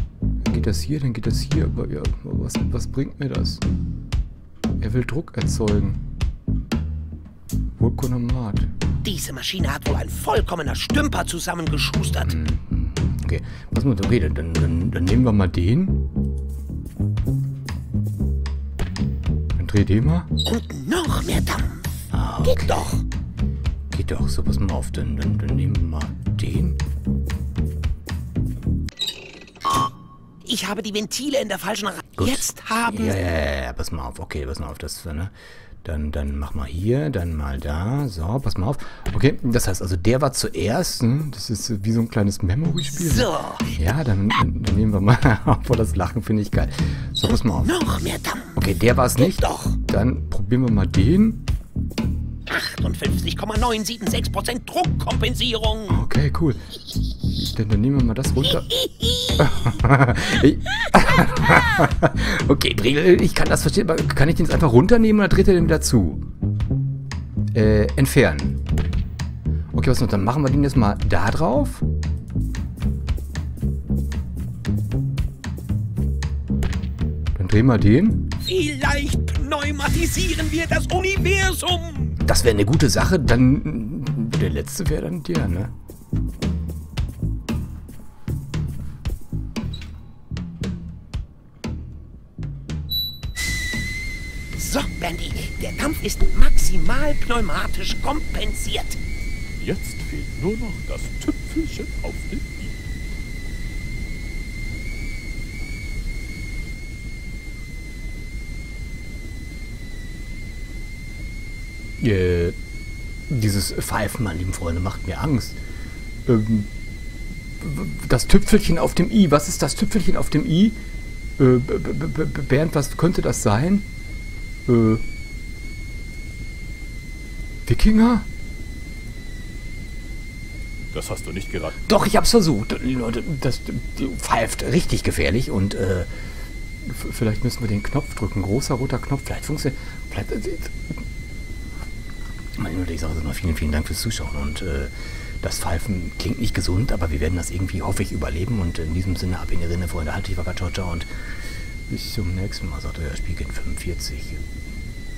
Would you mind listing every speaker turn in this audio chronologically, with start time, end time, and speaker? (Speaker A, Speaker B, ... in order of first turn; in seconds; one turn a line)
Speaker A: 0.4-3.6
Speaker A: 4.8-6.0
Speaker A: 7.8-8.7
Speaker B: 9.0-12.4
Speaker A: 12.2-16.1
Speaker A: 19.6-20.3
Speaker B: 20.4-21.9
Speaker A: 22.1-23.0
Speaker B: 22.4-23.0
Speaker A: 23.9-26.8
Speaker B: 30.4-33.2
Speaker A: 32.2-35.3
Speaker A: 35.8-47.8
Speaker B: 42.9-43.8
Speaker B: 47.3-48.6
Speaker A: 48.5-51.4
Speaker B: 49.2-49.8
Speaker B: 52.5-56.0
Speaker A: 55.9-56.8
Speaker A: 57.3-58.7
Speaker B: 58.5-59.5
Speaker A: 59.4-66.2
Speaker A: 67.5-68.6
Speaker A: 69.7-71.8
Speaker A: 77.3-78.3
Speaker B: 78.4-82.2
Speaker A: 82.2-85.7
Speaker B: 94.6-99.0
Speaker C: 99.6-102.8
Speaker A: 112.0-112.6
Speaker A: 113.3-115.6
Speaker A: 116.3-116.7
Speaker A: 117.6-120.8
Speaker A: 121.4-123.9
Speaker A: 124.7-125.0
Speaker A: 127.7-128.3
Speaker C: 130.9-131.8
Speaker A: 131.9-136.1
Speaker A: 136.8-140.8
Speaker A: 142.6-151.1
Speaker A: 151.9-154.4